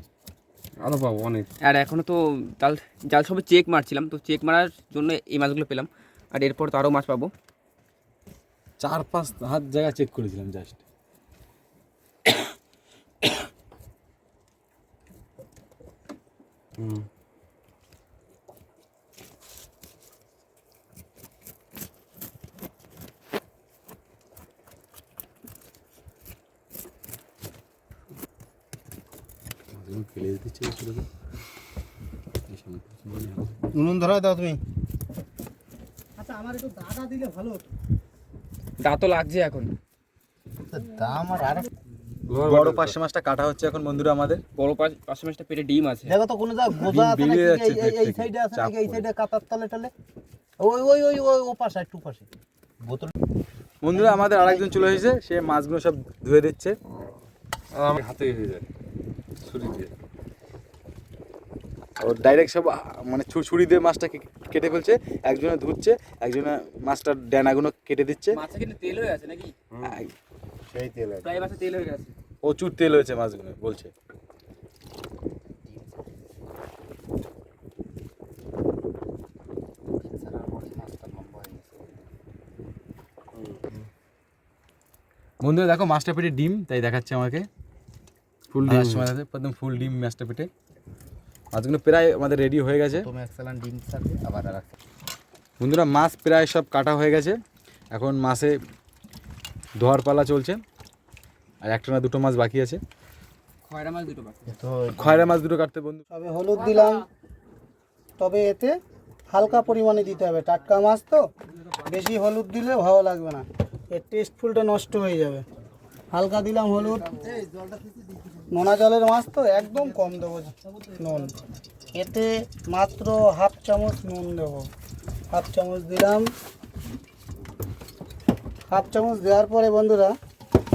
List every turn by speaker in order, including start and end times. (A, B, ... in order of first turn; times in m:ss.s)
0:00.8-0:01.5 A
0:01.6-0:07.3 B
0:08.8-0:10.8 C
0:29.7-0:31.1 C
0:32.5-0:33.6 C
0:33.7-0:34.6 D
0:36.2-0:37.7 E
0:38.8-0:39.7 B
0:40.7-0:41.7 D
0:42.3-0:43.0 A
0:42.4-0:44.4 C
0:44.6-0:46.2 B
0:46.1-0:49.9 D
0:46.8-0:49.1 C
0:50.6-0:52.3 D
0:52.8-0:53.1 D
0:53.8-0:56.8 C
0:53.9-0:55.0 D
0:57.7-0:58.6 A
0:59.4-0:59.9 A
1:02.0-1:08.4 C
1:08.3-1:09.6 B
1:09.7-1:10.0 A
1:09.8-1:10.1 C
1:10.7-1:11.3 D
1:11.2-1:12.1 B
1:12.4-1:13.9 C
1:15.5-1:16.1 D
1:20.1-1:21.9 D
1:23.5-1:23.8 A
1:25.4-1:27.5 C
1:28.5-1:29.1 A
1:28.7-1:30.5 C
1:31.5-1:33.1 C
1:33.0-1:34.7 D
1:35.6-1:37.4 C
1:37.9-1:38.6 C
1:39.8-1:40.6 C
1:41.6-1:42.8 C
1:43.6-1:44.6 B
1:44.5-1:45.3 D
1:45.0-1:46.0 C
1:46.1-1:47.1 E
1:46.6-1:46.9 B
1:48.2-1:48.8 E
1:49.3-1:51.2 E
1:51.8-1:55.5 E
1:56.1-1:57.2 E
1:57.2-1:58.4 D
1:58.5-2:01.4 E
2:01.9-2:04.7 E
2:05.3-2:06.3 E
2:08.7-2:10.2 E